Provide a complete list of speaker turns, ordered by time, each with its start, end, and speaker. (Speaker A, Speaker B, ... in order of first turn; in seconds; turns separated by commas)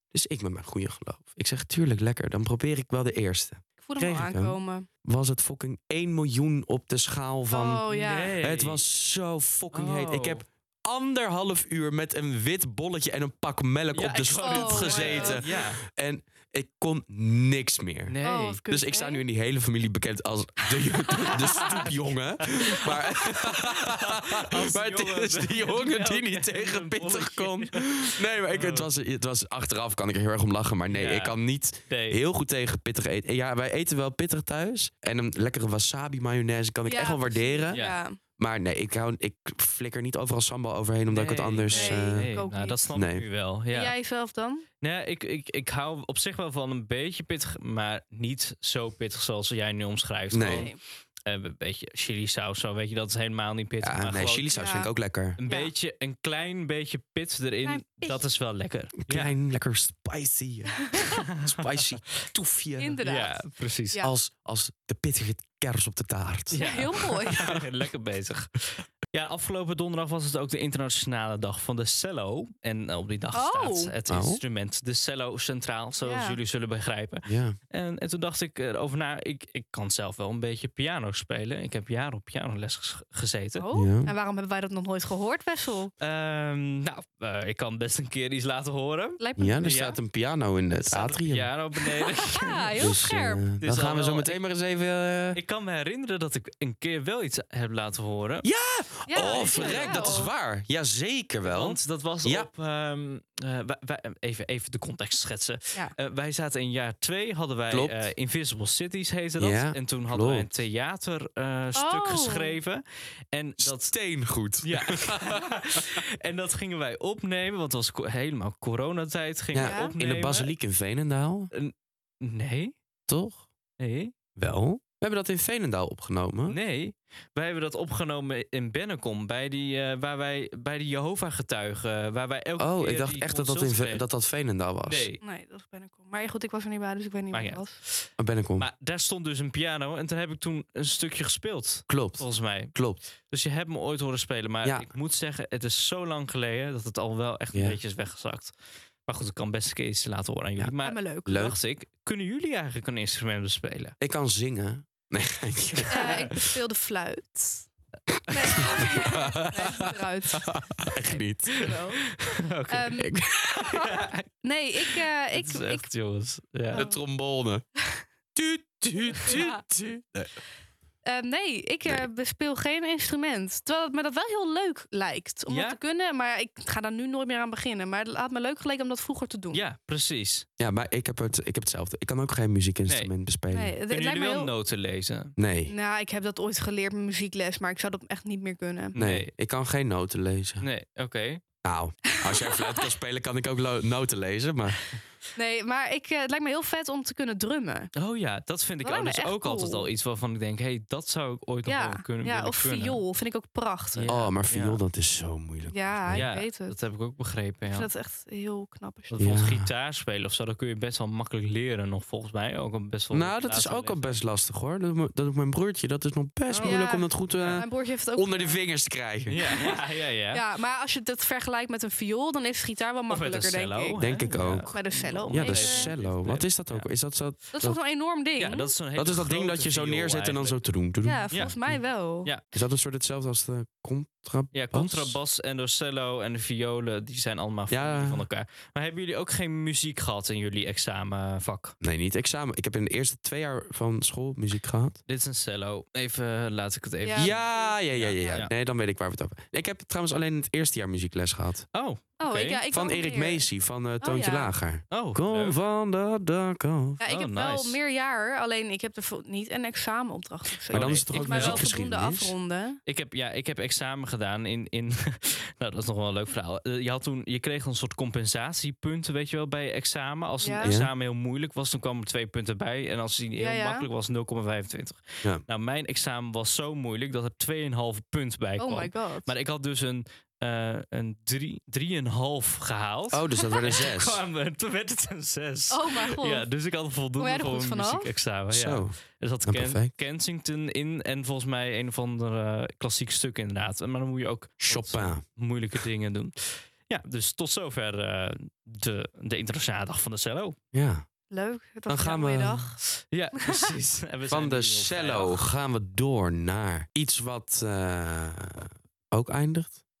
Speaker A: 0.1-7.8, Speaker B: 3.8-4.9, Speaker B: 7.5-8.4, Speaker C: 7.9-8.8, Speaker A: 8.4-37.8, Speaker C: 9.7-10.4, Speaker C: 13.9-15.8, Speaker B: 14.3-15.4, Speaker C: 18.1-18.6, Speaker B: 18.2-19.2, Speaker B: 20.8-21.9, Speaker C: 21.5-21.9, Speaker C: 22.5-28.9, Speaker C: 30.9-31.4, Speaker C: 31.9-32.2, Speaker B: 36.9-38.2, Speaker C: 37.7-38.0, Speaker A: 38.4-42.3, Speaker C: 41.1-43.9, Speaker B: 41.7-42.8, Speaker A: 42.9-43.2, Speaker B: 43.7-44.7, Speaker C: 44.8-54.8, Speaker A: 50.3-50.7, Speaker B: 50.4-50.8, Speaker A: 53.8-55.4, Speaker B: 54.5-54.9, Speaker C: 55.4-59.3, Speaker B: 57.6-58.2, Speaker A: 59.0-63.0, Speaker B: 60.9-61.2, Speaker C: 61.4-61.9, Speaker B: 62.8-64.1, Speaker C: 63.0-64.0, Speaker A: 64.0-66.7, Speaker C: 66.5-83.7, Speaker B: 66.6-67.5, Speaker A: 67.2-67.6, Speaker B: 73.3-73.9, Speaker A: 74.1-74.4, Speaker B: 76.0-76.4, Speaker A: 77.2-77.5, Speaker B: 83.6-85.9, Speaker A: 83.7-84.1, Speaker C: 86.0-90.0, Speaker B: 89.2-89.9, Speaker A: 89.4-91.5, Speaker C: 90.9-92.8, Speaker B: 91.8-93.4, Speaker A: 92.8-95.4, Speaker C: 93.6-94.4, Speaker C: 95.3-98.5, Speaker A: 98.4-102.5, Speaker B: 99.1-100.3, Speaker C: 99.1-100.2, Speaker C: 101.4-113.9, Speaker A: 107.7-108.1, Speaker A: 109.4-110.5, Speaker B: 111.7-112.6, Speaker A: 113.6-116.0, Speaker C: 114.6-120.5, Speaker A: 119.5-121.5, Speaker B: 119.6-120.0, Speaker C: 121.5-122.8, Speaker A: 123.1-123.5, Speaker C: 123.8-124.1, Speaker A: 124.3-126.6, Speaker C: 126.5-134.1, Speaker A: 132.6-135.1, Speaker C: 134.8-135.2, Speaker B: 135.2-137.8, Speaker C: 137.3-148.5, Speaker A: 138.2-138.7, Speaker A: 141.9-143.0, Speaker A: 147.5-147.8, Speaker C: 149.1-153.9, Speaker B: 150.8-151.5, Speaker A: 151.2-151.6, Speaker A: 154.0-156.3, Speaker C: 155.7-156.3, Speaker B: 155.9-157.7, Speaker B: 158.3-160.5, Speaker A: 158.3-161.8, Speaker B: 161.5-165.9, Speaker C: 161.5-163.0, Speaker A: 163.0-163.7, Speaker C: 163.6-164.2, Speaker C: 164.8-166.9, Speaker B: 166.7-167.0, Speaker A: 166.7-167.6, Speaker A: 168.3-170.3, Speaker B: 169.2-169.6, Speaker B: 171.0-179.6, Speaker C: 175.5-175.8, Speaker C: 179.5-180.4, Speaker A: 180.6-183.8, Speaker B: 183.5-184.5, Speaker C: 183.9-185.3, Speaker A: 185.4-185.7, Speaker B: 185.7-189.0, Speaker C: 188.9-189.3, Speaker A: 188.9-190.7, Speaker C: 190.6-191.4, Speaker A: 191.6-194.9, Speaker B: 192.1-192.8, Speaker B: 195.3-197.9, Speaker C: 197.9-203.0, Speaker B: 198.8-199.8, Speaker B: 201.7-204.1, Speaker C: 203.9-204.8, Speaker A: 204.1-206.2, Speaker B: 205.7-206.8, Speaker C: 206.1-207.9, Speaker B: 207.7-209.3, Speaker C: 209.1-214.2, Speaker A: 209.2-209.7, Speaker A: 213.1-219.4, Speaker C: 216.5-217.6, Speaker B: 216.6-218.6, Speaker C: 219.3-220.4, Speaker B: 219.5-219.8, Speaker B: 220.3-224.0, Speaker C: 223.1-226.9, Speaker A: 224.0-224.7, Speaker B: 224.7-225.9, Speaker A: 225.3-227.8, Speaker B: 227.5-228.7, Speaker C: 228.4-230.6, Speaker A: 228.9-231.8, Speaker B: 231.0-232.3, Speaker C: 231.3-231.6, Speaker A: 232.5-235.2, Speaker C: 234.5-241.8, Speaker A: 237.7-238.2, Speaker A: 241.8-245.0, Speaker C: 245.1-248.5, Speaker B: 247.0-248.4, Speaker A: 247.2-251.7, Speaker C: 251.7-252.6, Speaker B: 252.2-253.5, Speaker A: 252.7-257.0, Speaker B: 254.0-254.5, Speaker C: 254.9-255.6, Speaker B: 257.0-262.8, Speaker C: 257.1-257.8, Speaker C: 260.7-261.7, Speaker A: 260.7-262.3, Speaker C: 262.9-300.6, Speaker B: 270.4-270.7, Speaker A: 270.6-270.9, Speaker B: 273.4-273.9, Speaker B: 278.6-279.3, Speaker A: 283.1-284.2, Speaker B: 285.7-286.5, Speaker B: 287.2-288.1, Speaker A: 288.5-288.9, Speaker A: 289.4-289.9, Speaker A: 294.6-295.2, Speaker A: 300.7-301.0, Speaker B: 301.3-302.8, Speaker A: 301.9-302.7, Speaker C: 302.9-305.4, Speaker B: 303.4-303.7, Speaker A: 304.3-309.8